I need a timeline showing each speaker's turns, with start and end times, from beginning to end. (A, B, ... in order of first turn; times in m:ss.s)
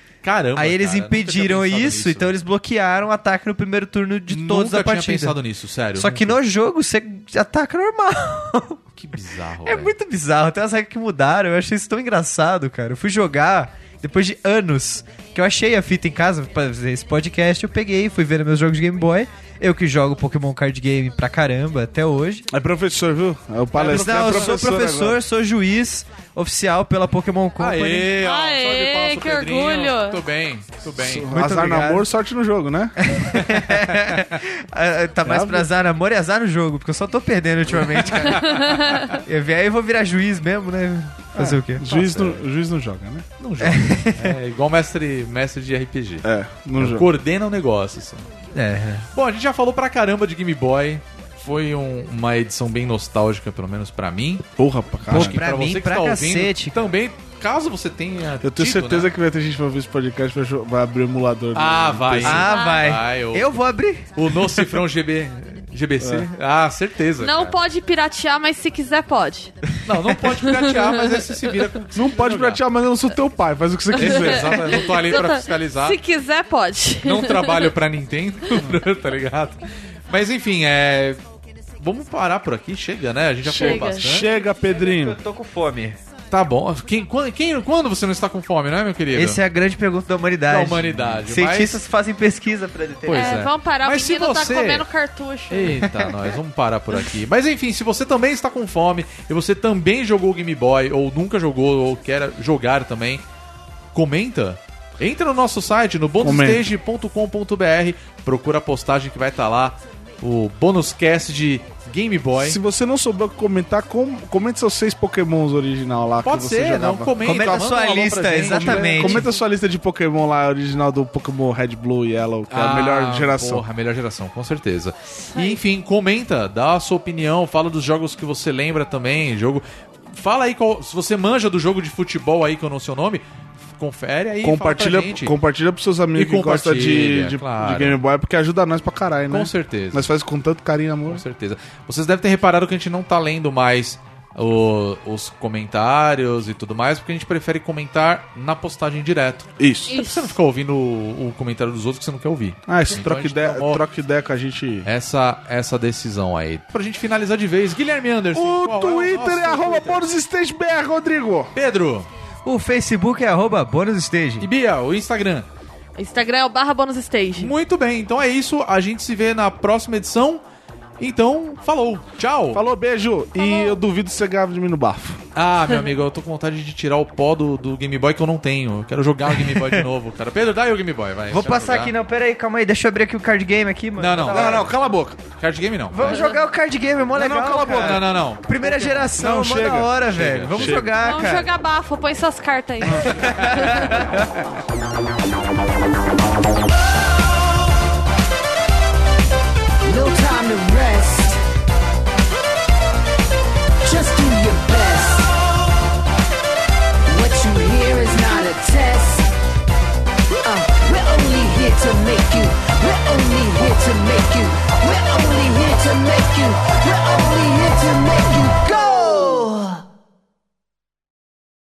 0:00.2-0:02.3 A
0:00.6-0:05.4 B
0:04.3-0:06.4 A
0:06.0-0:08.8 B
0:09.0-0:09.9 A
0:09.6-0:22.5 B
0:22.5-0:25.2 C
0:23.8-0:24.6 A
0:23.8-0:28.2 B
0:27.6-0:31.4 A
0:28.2-0:30.2 D
0:30.9-0:33.0 C
0:31.3-0:32.1 B
0:33.0-0:41.8 B
0:33.3-0:34.3 A
0:35.2-0:35.7 C
0:37.7-0:39.2 A
0:38.4-0:39.2 D
0:41.4-0:43.3 C
0:41.8-0:42.4 A
0:43.4-0:48.3 A
0:43.6-0:44.4 B
0:46.2-0:47.1 C
0:48.5-0:49.1 B
0:49.1-0:54.5 A
0:54.6-0:55.4 C
0:55.1-0:59.1 A
0:55.1-0:56.9 B
0:58.4-1:02.5 C
1:01.5-1:03.6 A
1:02.2-1:04.1 B
1:02.5-1:02.9 D
1:04.2-1:07.6 A
1:07.2-1:09.5 D
1:09.8-1:12.6 A
1:10.3-1:11.3 D
1:11.9-1:15.0 C
1:14.0-1:16.0 A
1:14.0-1:17.7 D
1:17.0-1:21.2 A
1:21.8-1:24.3 A
1:23.4-1:25.2 C
1:23.6-1:24.2 D
1:24.7-1:26.0 B
1:26.3-1:29.4 A
1:29.1-1:33.5 B
1:30.5-1:31.8 A
1:33.0-1:34.9 A
1:33.1-1:35.8 D
1:35.5-1:43.2 A
1:43.9-1:52.6 A
1:46.2-1:46.7 C
1:52.4-1:57.8 C
1:56.2-1:59.3 A
1:57.2-1:59.3 B
1:58.3-2:03.7 C
2:02.5-2:13.2 A
2:05.3-2:05.6 D
2:13.8-2:15.3 A
2:14.4-2:21.2 C
2:16.2-2:18.0 A
2:19.3-2:20.1 A
2:21.1-2:33.8 A
2:29.6-2:30.0 C
2:29.9-2:30.3 D
2:32.7-2:34.9 C
2:34.8-2:40.1 A
2:38.3-2:41.5 C
2:41.5-2:42.1 A
2:42.4-2:44.5 B
2:44.4-2:45.5 A
2:46.0-2:47.5 D
2:47.4-2:50.4 A
2:51.0-2:52.6 A
2:52.5-2:55.2 C
2:53.4-2:53.8 D
2:55.4-3:01.9 A
2:59.4-2:59.8 B
3:01.3-3:04.7 B
3:04.0-3:04.6 A
3:04.3-3:05.2 C
3:05.4-3:06.2 A
3:05.9-3:11.5 B
3:06.1-3:06.4 D
3:07.1-3:10.9 C
3:07.6-3:08.4 A
3:10.1-3:10.9 A
3:10.9-3:14.0 D
3:12.8-3:13.4 C
3:13.2-3:13.5 A
3:13.3-3:14.1 B
3:19.8-3:21.4 E
3:23.8-3:25.4 E
3:27.1-3:29.3 E
3:30.4-3:39.8 E